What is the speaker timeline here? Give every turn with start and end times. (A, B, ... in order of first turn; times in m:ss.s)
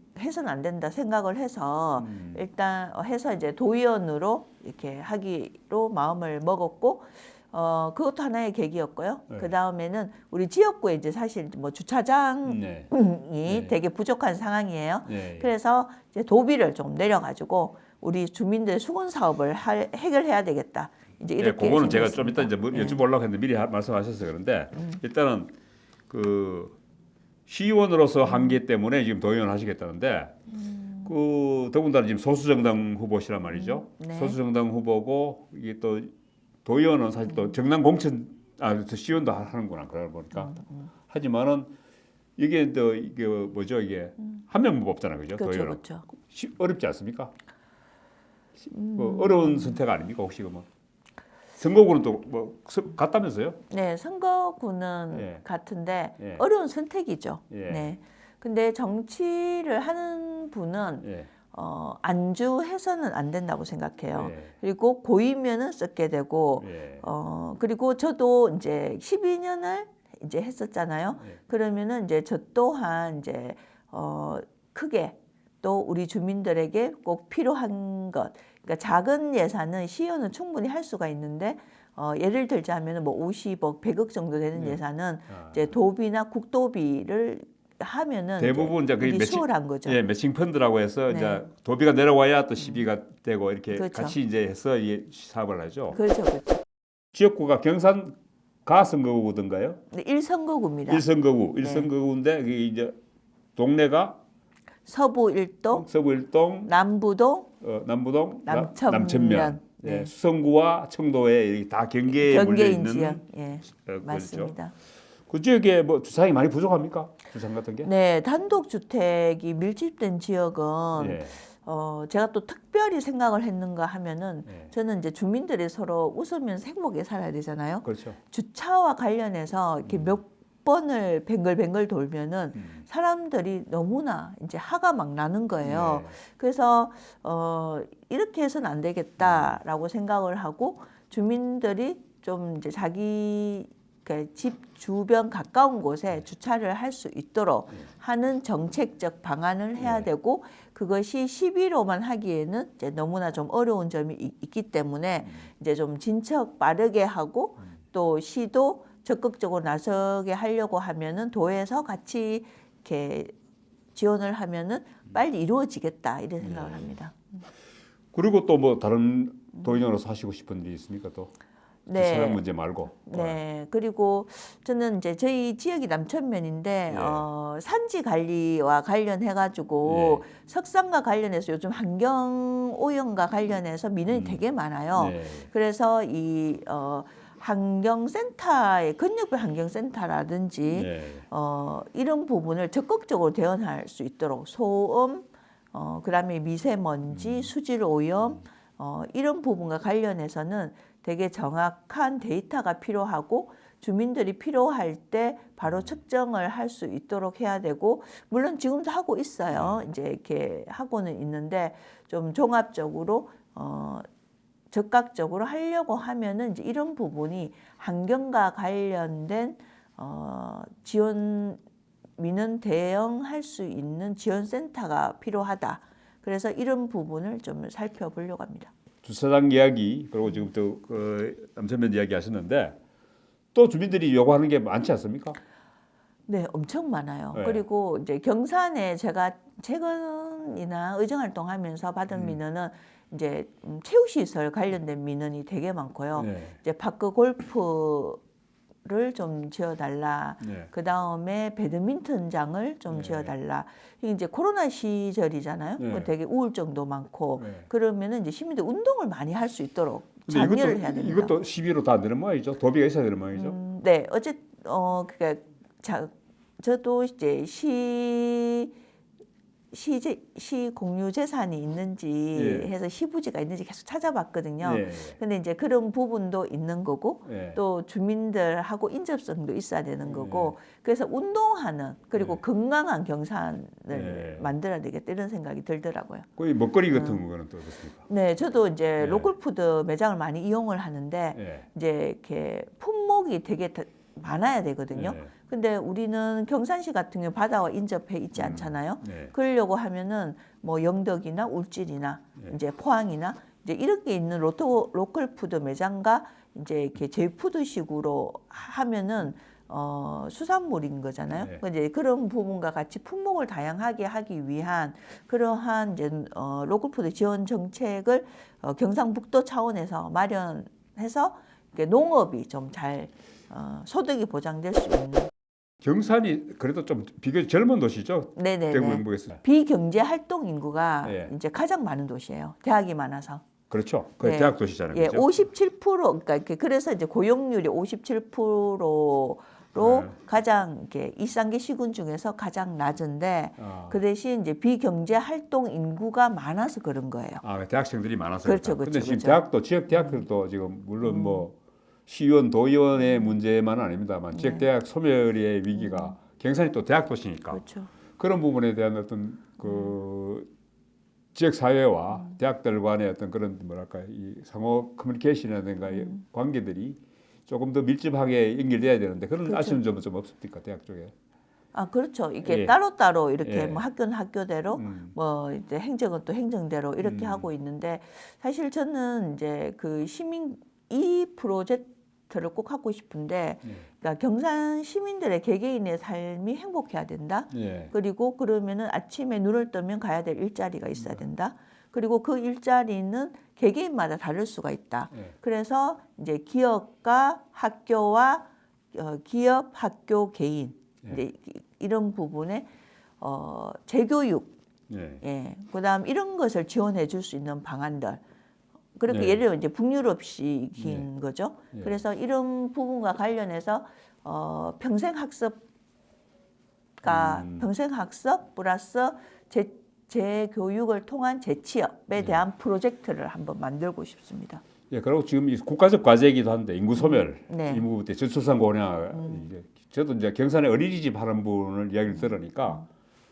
0:00.1-0:23.0 A
0:02.0-0:02.4 B
0:12.4-0:12.9 B
0:13.5-0:13.8 B
0:15.0-0:15.5 B
0:21.4-0:25.5 B
0:24.8-0:25.0 A
0:26.1-0:26.8 B
0:27.5-0:30.4 B
0:30.6-0:31.1 A
0:31.0-0:36.1 B
0:33.5-0:34.4 A
0:36.6-0:40.6 B
0:40.4-0:40.9 A
0:41.1-0:41.7 B
0:42.4-0:47.3 B
0:45.3-0:46.1 A
0:48.6-0:50.7 B
0:48.7-0:49.8 A
0:51.6-0:53.6 B
0:53.7-1:30.0 A
0:55.1-0:55.4 B
0:57.5-0:57.9 B
1:01.0-1:01.3 B
1:04.1-1:04.5 B
1:06.6-1:07.0 B
1:24.5-1:25.7 B
1:28.4-1:36.0 B
1:31.1-1:31.4 A
1:33.7-1:34.2 A
1:35.9-1:36.6 A
1:37.1-1:38.1 B
1:38.6-1:39.8 B
1:39.9-1:41.0 A
1:40.9-1:42.9 B
1:41.6-1:41.9 A
1:43.6-1:44.2 B
1:44.8-1:45.9 A
1:45.7-1:46.7 B
1:46.6-1:47.5 A
1:47.6-1:54.5 B
1:48.4-1:50.1 A
1:52.1-1:54.7 A
1:55.3-1:57.9 B
1:57.8-2:43.3 A
2:01.0-2:01.4 B
2:04.4-2:04.7 B
2:07.8-2:08.2 B
2:09.8-2:10.2 B
2:12.5-2:12.8 B
2:15.6-2:16.2 B
2:19.2-2:19.6 B
2:29.8-2:30.1 B
2:43.9-2:47.3 A
2:46.4-2:46.9 B
2:48.1-2:51.3 B
2:51.8-2:52.4 A
2:51.9-2:53.4 B
2:53.1-3:34.0 A
2:56.9-2:57.3 B
2:59.8-3:00.2 B
3:04.1-3:04.4 B
3:04.9-3:05.5 B
3:10.7-3:11.2 B
3:17.1-3:17.5 B
3:29.5-3:29.8 B
3:34.7-3:41.6 A
3:42.2-3:48.7 A
3:49.0-3:52.8 B
3:53.5-3:55.4 B
3:56.3-4:08.2 A
3:57.3-3:57.6 B
4:02.1-4:02.4 B
4:06.1-4:06.6 B
4:08.8-4:21.3 A
4:10.4-4:10.7 B
4:12.9-4:13.3 B
4:15.8-4:16.1 B
4:17.4-4:17.6 B
4:20.3-4:23.6 B
4:23.3-4:28.7 A
4:29.7-4:46.3 A
4:32.3-4:32.7 B
4:34.6-4:35.2 B
4:37.2-4:37.6 B
4:40.0-4:40.5 B
4:42.2-4:42.4 B
4:43.9-4:44.5 B
4:46.4-4:48.1 B
4:46.9-4:47.2 A
4:48.1-5:25.3 A
4:49.0-4:49.3 B
4:51.3-4:51.7 B
4:54.9-4:55.3 B
4:58.3-4:59.3 B
5:11.3-5:11.6 B
5:25.8-5:29.4 B
5:28.4-5:33.4 A
5:31.0-5:31.3 B
5:33.7-5:35.3 B
5:34.2-5:47.4 A
5:39.8-5:40.1 B
5:43.6-5:44.0 B
5:47.4-5:51.5 B
5:48.4-5:50.2 A
5:51.0-5:51.5 A
5:52.1-5:57.6 B
5:53.0-5:53.3 A
5:54.3-5:54.6 A
5:55.7-5:56.2 A
5:57.5-5:57.9 A
5:58.2-6:00.5 B
6:01.3-6:11.1 B
6:05.9-6:06.2 A
6:09.4-6:09.8 A
6:11.7-6:42.7 A
6:12.4-6:12.8 B
6:13.4-6:13.8 B
6:14.8-6:15.1 B
6:17.0-6:17.5 B
6:27.5-6:27.9 B
6:30.9-6:31.2 B
6:43.2-6:44.5 A
6:44.9-6:45.2 B
6:45.2-6:48.2 A
6:49.0-6:55.6 A
6:49.1-6:49.4 B
6:50.8-6:51.1 B
6:57.0-7:04.6 A
6:57.0-6:57.7 B
7:04.9-7:12.8 B
7:07.0-7:07.8 A
7:09.1-7:09.5 A
7:12.1-7:12.8 A